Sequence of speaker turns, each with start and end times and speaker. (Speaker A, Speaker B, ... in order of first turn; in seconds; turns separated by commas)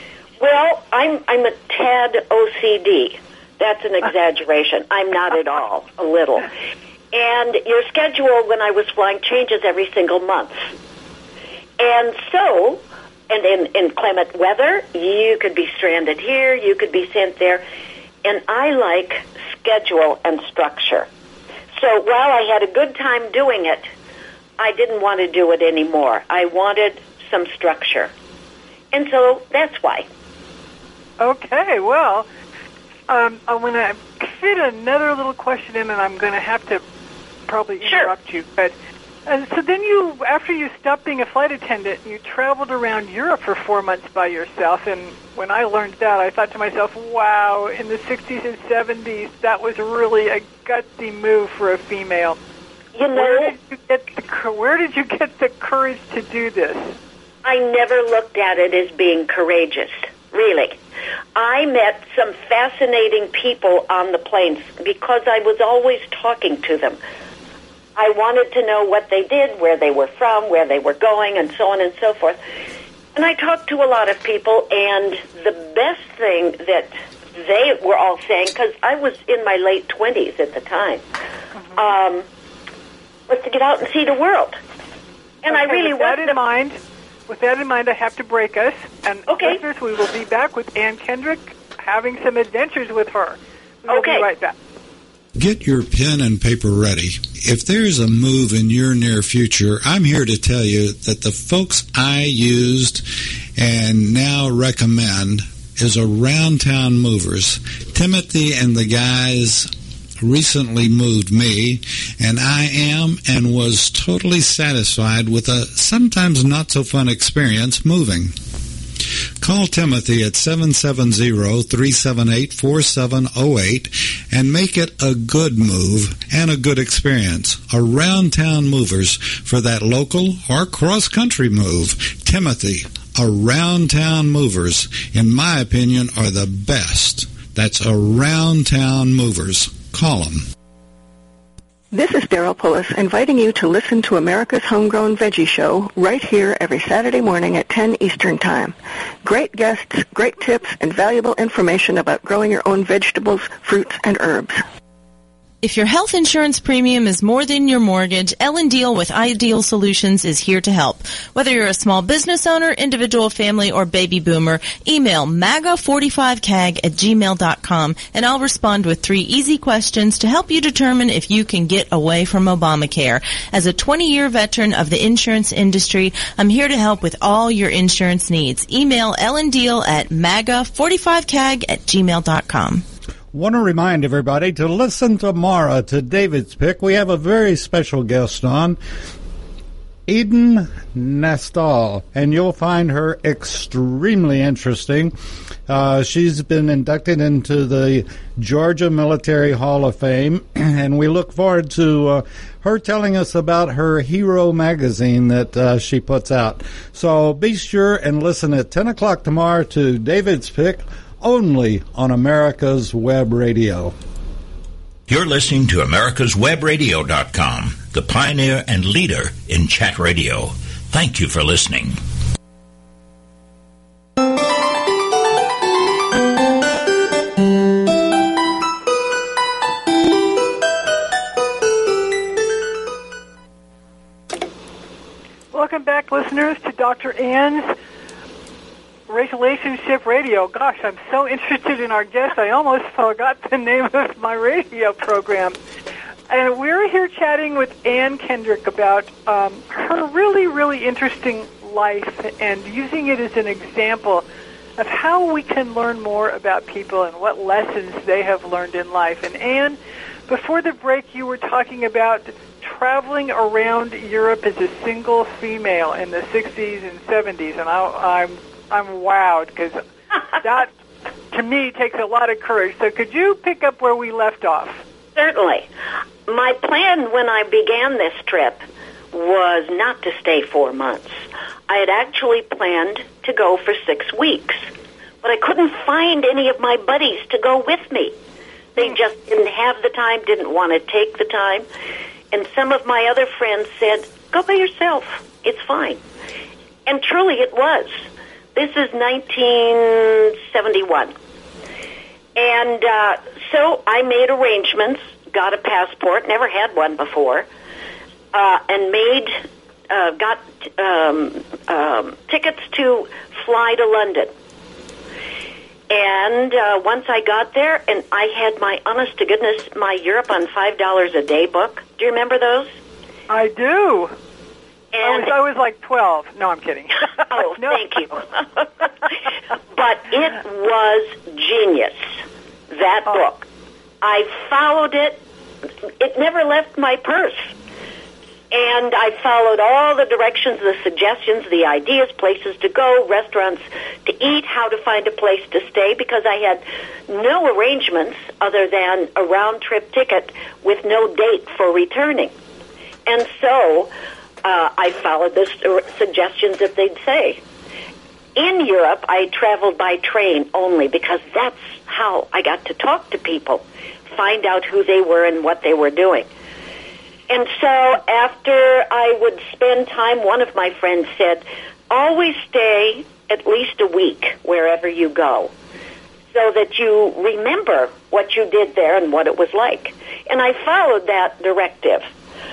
Speaker A: 0.4-6.5, Speaker A: 7.1-10.6, Speaker A: 11.8-17.6, Speaker A: 18.2-21.1, Speaker A: 21.8-23.9, Speaker A: 24.6-28.1, Speaker A: 28.9-30.1, Speaker B: 31.2-32.3, Speaker B: 33.1-36.8, Speaker B: 37.5-38.7, Speaker A: 37.8-38.1, Speaker B: 39.2-52.4, Speaker A: 52.9-53.5, Speaker B: 53.1-56.9, Speaker A: 57.4-60.8, Speaker A: 61.4-67.0, Speaker A: 68.0-72.4, Speaker A: 73.1-81.0, Speaker B: 81.5-81.9, Speaker A: 81.8-82.2, Speaker A: 83.3-84.6, Speaker A: 85.4-86.4, Speaker B: 85.5-86.8, Speaker B: 87.3-94.5, Speaker A: 89.3-89.6, Speaker A: 93.9-94.3, Speaker C: 95.3-103.0, Speaker C: 103.6-118.3, Speaker C: 119.4-140.5, Speaker D: 141.9-154.6, Speaker E: 155.6-182.8, Speaker F: 183.3-188.8, Speaker F: 190.1-195.1, Speaker F: 195.7-213.9, Speaker G: 215.1-222.0, Speaker B: 235.5-237.8, Speaker B: 239.1-245.6, Speaker B: 246.3-254.2, Speaker B: 254.8-269.8, Speaker B: 270.4-270.7, Speaker B: 271.3-274.8, Speaker A: 275.1-275.7, Speaker A: 276.3-284.6, Speaker A: 285.2-288.1, Speaker A: 288.8-291.6, Speaker A: 292.3-296.0, Speaker A: 296.9-301.1, Speaker A: 302.4-307.5, Speaker A: 308.3-309.4, Speaker A: 309.9-314.3, Speaker A: 315.9-322.7, Speaker B: 323.3-324.1, Speaker A: 324.9-325.3, Speaker B: 325.0-327.8, Speaker A: 327.3-328.7, Speaker A: 329.7-332.1, Speaker A: 332.7-333.5, Speaker A: 334.0-335.2, Speaker A: 336.0-337.5, Speaker A: 338.5-352.3, Speaker A: 353.1-353.9, Speaker A: 354.4-357.4, Speaker A: 358.4-366.3, Speaker A: 367.3-375.5, Speaker A: 376.3-382.1